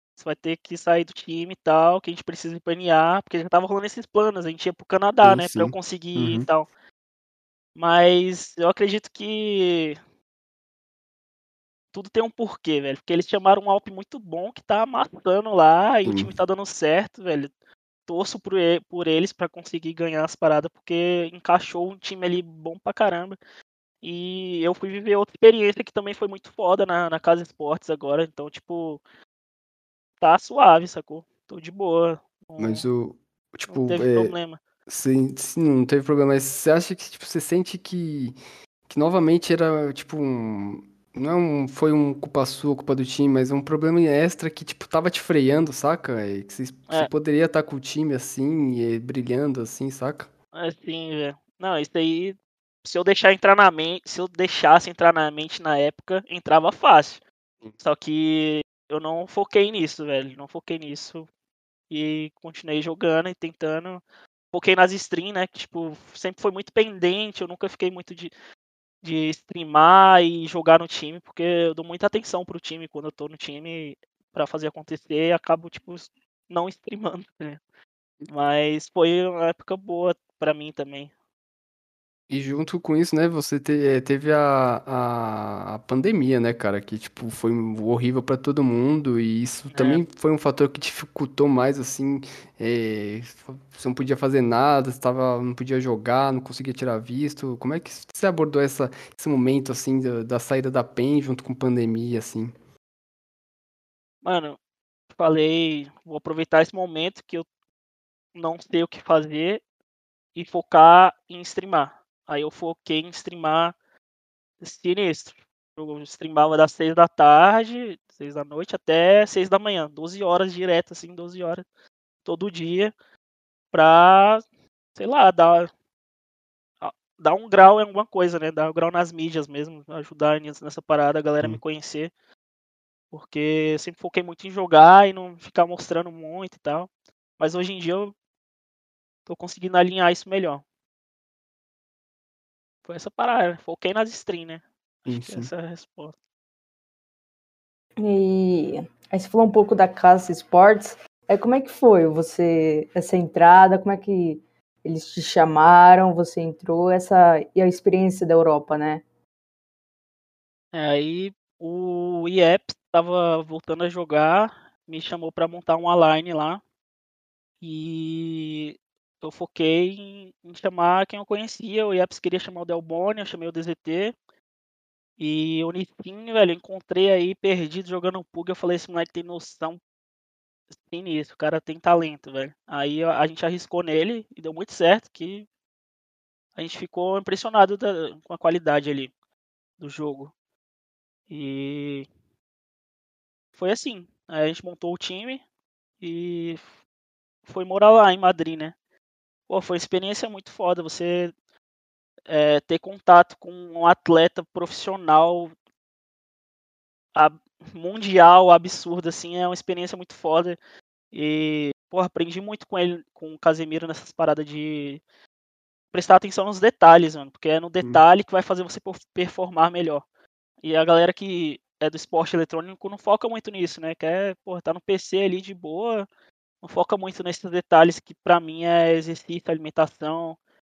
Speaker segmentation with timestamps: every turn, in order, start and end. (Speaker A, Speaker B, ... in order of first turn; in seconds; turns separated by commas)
Speaker A: 0.2-6.7, Speaker B: 5.2-6.5, Speaker A: 7.8-10.0, Speaker A: 11.9-17.5, Speaker B: 16.1-16.3, Speaker A: 18.1-23.4, Speaker A: 24.0-29.0, Speaker A: 30.2-32.9, Speaker B: 32.6-34.3, Speaker A: 33.7-34.6, Speaker B: 34.9-38.4, Speaker B: 38.9-50.3, Speaker A: 50.5-57.2, Speaker A: 57.8-61.3, Speaker A: 61.9-68.3, Speaker A: 69.0-77.6, Speaker A: 78.3-81.1, Speaker B: 82.3-102.5, Speaker A: 89.7-90.0, Speaker A: 104.2-104.6, Speaker A: 105.1-107.5, Speaker A: 108.3-109.6, Speaker A: 110.3-113.7, Speaker A: 114.6-121.6, Speaker A: 122.2-122.9, Speaker A: 123.7-124.4, Speaker A: 125.0-125.7, Speaker A: 126.8-132.1, Speaker A: 133.1-138.1, Speaker A: 139.2-140.6, Speaker A: 142.8-146.1, Speaker B: 145.1-145.5, Speaker C: 148.0-159.0, Speaker A: 160.7-166.6, Speaker A: 167.6-174.1, Speaker A: 175.2-179.8, Speaker A: 180.7-185.5, Speaker A: 186.6-189.1, Speaker A: 189.8-190.3, Speaker A: 191.3-192.1, Speaker A: 193.6-195.4, Speaker A: 196.0-196.6, Speaker A: 197.4-198.7, Speaker A: 199.5-201.3, Speaker A: 202.3-205.5, Speaker A: 207.1-210.6, Speaker A: 211.1-215.0, Speaker A: 215.9-220.0, Speaker A: 220.6-226.1, Speaker A: 226.6-230.4